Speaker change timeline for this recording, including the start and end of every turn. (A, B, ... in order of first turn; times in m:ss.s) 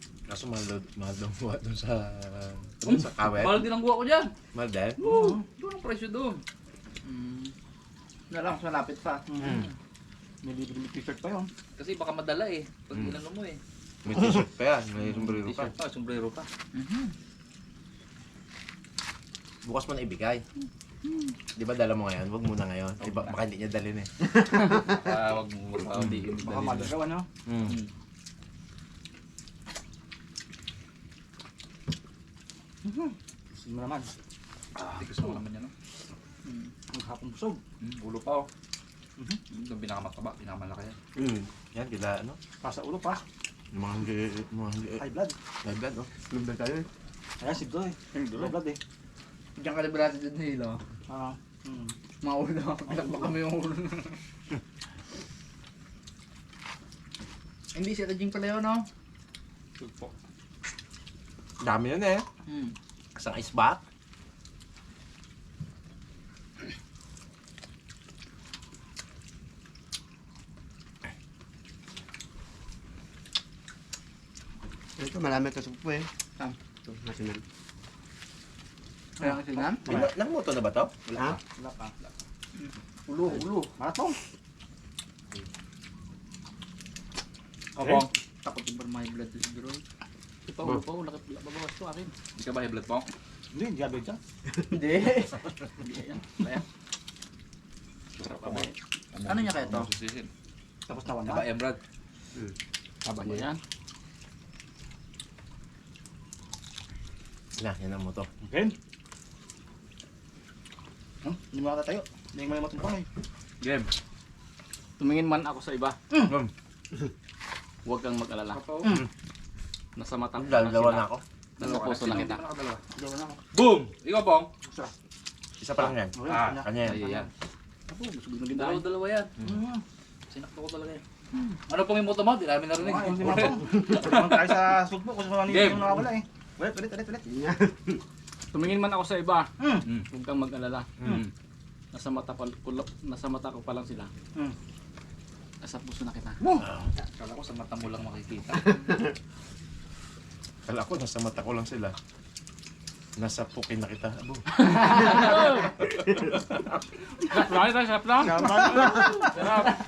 0:00.3-0:03.7 A
0:02.8-0:04.3 B
0:04.5-0:05.0 A
0:05.0-0:05.4 C
0:05.0-0:05.3 D
0:05.3-0:06.4 B
0:07.0-0:07.5 D
0:08.3-0:09.3 D
0:09.3-0:09.6 C
0:09.4-0:09.7 B
0:09.4-0:09.7 A
0:10.4-0:11.5 C
0:11.8-0:13.6 B
0:14.0-0:15.7 A
0:15.0-0:16.5 B
0:16.7-0:17.1 D
0:19.6-0:20.4 A
0:21.6-0:24.1 A
0:23.0-0:23.4 B
0:24.3-0:25.1 E
0:24.6-0:26.9 B
0:25.8-0:27.3 C
0:25.9-0:26.3 A
0:27.4-0:27.8 A
0:32.8-0:34.1 C
0:34.9-0:35.7 B
0:34.9-0:35.4 C
0:36.4-0:36.7 D
0:36.9-0:37.6 C
0:37.8-0:38.5 B
0:39.5-0:41.0 B
0:41.2-0:42.4 A
0:42.6-0:43.2 C
0:43.7-0:45.0 A
0:45.0-0:45.4 C
0:45.6-0:46.1 A
0:46.2-0:46.9 E
0:47.4-0:48.8 C
0:48.2-0:48.5 F
0:49.6-0:50.8 D
0:51.1-0:52.0 C
0:52.2-0:54.2 D
0:57.7-0:58.8 D
0:59.8-1:00.1 C
1:01.6-1:02.2 A
1:02.5-1:02.7 D
1:03.2-1:03.8 A
1:15.0-1:16.1 E
1:16.8-1:17.4 E
1:19.2-1:19.9 D
1:19.2-1:20.1 C
1:19.8-1:20.9 A
1:21.1-1:21.9 C
1:22.5-1:23.7 D
1:23.8-1:24.2 C
1:27.8-1:28.1 C
1:27.8-1:29.8 D
1:30.5-1:32.1 F
1:32.4-1:33.1 B
1:33.5-1:34.2 C
1:34.7-1:35.4 D
1:35.8-1:36.6 F
1:38.2-1:40.3 B
1:38.4-1:38.7 F
1:39.2-1:39.9 D
1:40.9-1:41.5 C
1:41.2-1:41.8 B
1:43.0-1:43.6 F
1:47.6-1:48.3 A
1:48.4-1:48.8 C
1:51.2-1:53.1 C
1:53.6-1:53.9 B
1:55.0-1:56.0 F
1:56.3-1:56.5 A
1:57.8-1:58.6 F
1:58.5-1:58.8 B
2:00.0-2:02.5 F
2:00.3-2:01.2 A
2:01.6-2:02.4 B
2:01.8-2:03.4 C
2:03.5-2:04.5 B
2:04.6-2:04.9 C
2:05.6-2:07.1 A
2:05.8-2:07.2 C
2:06.2-2:07.3 B
2:07.9-2:08.9 F
2:08.5-2:09.3 B
2:09.4-2:09.8 C
2:10.3-2:11.0 B
2:11.7-2:14.6 B
2:12.7-2:17.3 C
2:15.5-2:16.0 B
2:17.3-2:18.0 E
2:18.5-2:19.5 F
2:19.6-2:19.8 C
2:20.1-2:21.2 F
2:21.0-2:21.3 B
2:21.9-2:24.1 F
2:25.6-2:26.4 F
2:26.4-2:26.6 C
2:26.6-2:26.9 A
2:27.2-2:28.8 B
2:28.6-2:29.1 E
2:30.6-2:31.9 A
2:33.2-2:35.0 A
2:34.7-2:35.7 F
2:36.2-2:36.8 A
2:37.2-2:39.7 F
2:38.2-2:39.4 E
2:38.2-2:39.4 C